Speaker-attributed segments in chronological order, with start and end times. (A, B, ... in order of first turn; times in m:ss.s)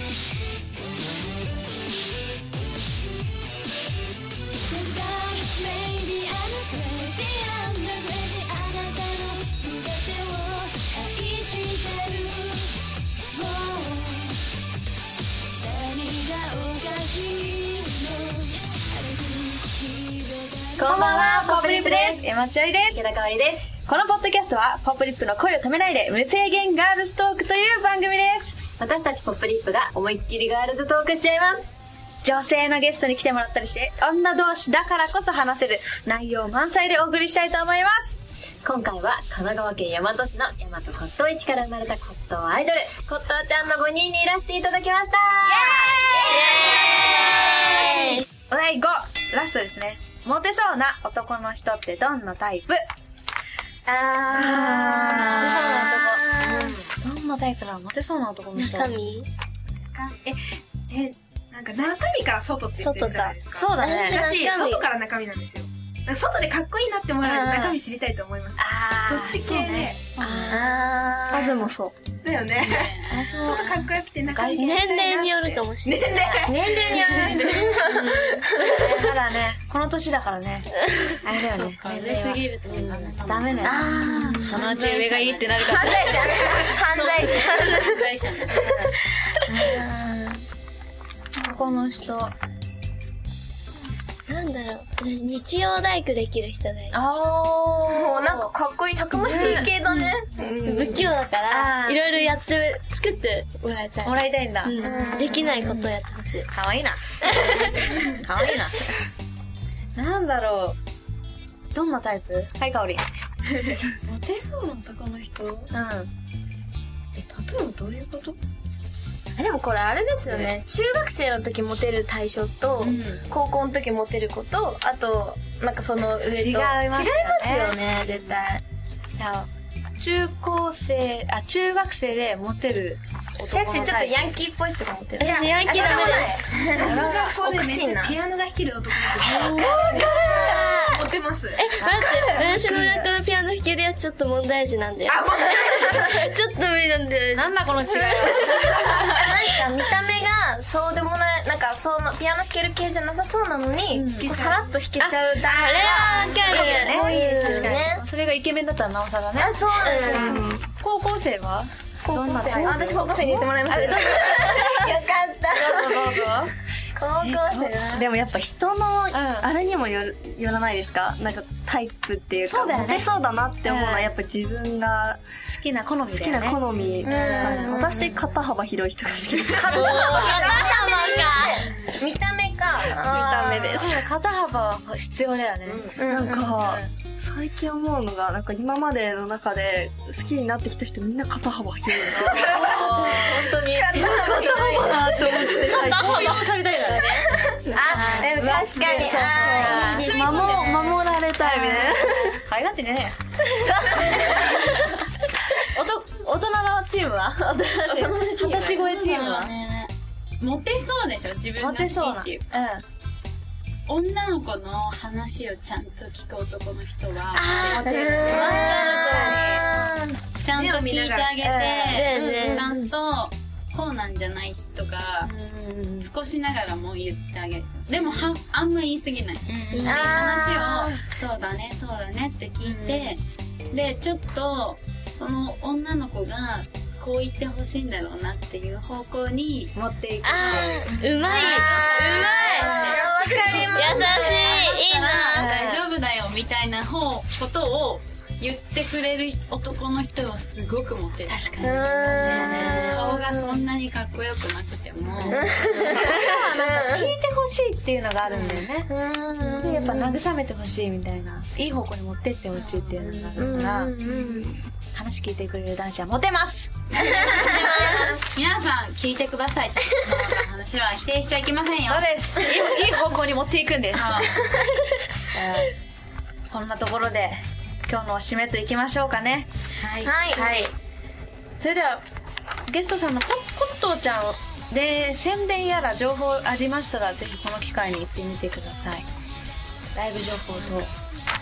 0:06.0-0:06.2 A
0:06.4-0:08.6 B
0:09.1-0:11.6 B
0:13.7-0:14.2 B
0:15.6-0:20.6 B
0:20.8-0:22.2 C
0:20.8-0:23.0 D
0:22.9-0:23.7 C
0:23.8-0:28.7 D
0:28.8-0:31.6 C
0:32.2-0:38.2 D
0:38.6-0:45.6 C
0:45.4-0:47.8 D
0:45.9-0:48.2 E
0:46.3-0:48.2 B
0:48.5-0:52.8 D
0:53.9-0:56.8 E
0:54.3-0:59.0 D
0:55.4-0:56.6 B
0:58.5-0:59.3 B
0:59.9-1:10.1 F
1:02.8-1:04.9 B
1:03.5-1:04.2 D
1:07.5-1:07.8 E
1:08.6-1:09.9 D
1:10.1-1:10.5 A
1:10.2-1:10.7 B
1:10.3-1:11.9 E
1:12.0-1:17.8 F
1:12.5-1:13.7 A
1:13.1-1:14.8 D
1:14.5-1:16.2 B
1:16.1-1:16.7 D
1:16.4-1:18.9 E
1:16.9-1:18.4 A
1:18.6-1:26.4 D
1:21.4-1:25.9 A
1:23.6-1:24.6 E
1:25.6-1:28.1 E
1:26.9-1:28.7 A
1:28.5-1:28.9 D
1:29.5-1:29.8 D
1:29.5-1:30.4 E
1:31.4-1:32.3 D
1:34.3-1:37.0 B
1:36.9-1:38.5 D
1:37.9-1:41.1 E
1:39.1-1:39.7 D
1:40.6-1:46.5 B
1:41.5-1:42.3 D
1:44.0-1:45.9 D
1:44.8-1:45.4 E
1:46.5-1:48.8 D
1:47.2-1:47.9 B
1:50.0-1:50.8 D
1:51.7-1:53.0 D
1:53.6-1:56.1 D
1:57.2-1:58.4 D
1:59.4-2:08.6 E
2:02.8-2:03.2 A
2:06.3-2:07.8 D
2:09.2-2:14.3 D
2:13.5-2:18.2 E
2:15.2-2:16.4 B
2:15.3-2:16.2 D
2:16.8-2:17.4 D
2:16.8-2:21.8 F
2:19.2-2:19.6 E
2:19.3-2:20.8 D
2:20.3-2:20.8 E
2:21.6-2:29.2 B
2:21.8-2:22.8 D
2:22.0-2:22.4 E
2:22.7-2:23.0 G
2:25.1-2:26.1 F
2:25.8-2:26.1 E
2:27.3-2:29.2 D
2:29.1-2:38.0 E
2:33.9-2:44.9 D
2:34.2-2:34.6 F
2:35.5-2:37.7 B
2:39.4-2:40.4 E
2:39.8-2:40.6 B
2:40.2-2:40.6 G
2:42.0-2:46.3 E
2:45.5-2:46.5 D
2:47.0-2:48.0 E
2:47.2-2:48.0 D
2:47.9-2:55.2 G
2:49.1-2:49.5 D
2:52.4-2:53.1 D
2:53.6-2:54.1 D
2:55.4-2:57.8 D
2:56.1-3:00.4 G
2:57.0-2:58.2 E
2:59.5-3:03.6 E
2:59.6-3:01.6 B
2:59.9-3:00.4 D
3:02.8-3:04.0 G
3:03.4-3:06.0 D
3:05.6-3:12.4 G
3:06.0-3:06.6 E
3:06.5-3:06.9 D
3:12.1-3:23.1 D
3:12.4-3:12.8 E
3:12.5-3:12.8 F
3:13.6-3:14.5 F
3:13.7-3:15.4 E
3:13.9-3:16.5 G
3:15.9-3:17.0 A
3:17.7-3:20.8 E
3:18.0-3:18.3 B
3:18.2-3:18.7 A
3:18.6-3:20.6 F
3:20.0-3:22.4 G
3:23.6-3:24.0 G
3:24.0-3:24.9 D
3:25.6-3:29.5 D
3:27.6-3:28.2 B
3:28.4-3:32.6 A
3:31.6-3:32.8 D
3:33.9-3:39.7 A
3:37.4-3:37.7 B
3:37.7-3:38.4 F
3:37.8-3:40.2 E
3:37.8-3:39.3 D
3:38.4-3:39.4 B
3:40.3-3:45.3 A
3:40.5-3:41.4 F
3:41.4-3:42.9 D
3:41.9-3:42.7 B
3:45.2-3:46.1 D
3:46.0-3:59.7 A
3:48.0-3:48.3 D
3:49.5-3:50.0 D
3:49.7-3:50.2 B
3:49.8-3:50.9 E
3:52.6-3:53.1 D
3:59.7-4:03.7 D
4:00.2-4:03.1 B
4:00.4-4:01.7 A
4:01.3-4:04.7 E
4:03.5-4:03.7 A
4:03.7-4:05.5 B
4:04.3-4:16.0 A
4:05.3-4:05.8 D
4:11.2-4:13.0 D
4:11.6-4:13.6 E
4:15.0-4:18.9 D
4:15.2-4:17.1 E
4:18.2-4:18.7 A
4:18.9-4:20.2 E
4:19.4-4:24.0 D
4:22.5-4:23.4 A
4:23.4-4:24.6 E
4:24.9-4:28.2 D
4:26.9-4:32.1 A
4:27.2-4:28.0 E
4:27.7-4:28.2 B
4:31.8-4:34.2 D
4:33.9-4:34.4 A
4:35.3-4:35.7 D
4:36.5-4:39.5 D
4:39.8-4:40.1 A
4:40.0-4:40.6 E
4:40.3-4:40.7 D
4:41.6-4:42.0 D
4:42.7-4:49.0 D
4:49.9-4:50.9 D
4:50.5-4:50.8 A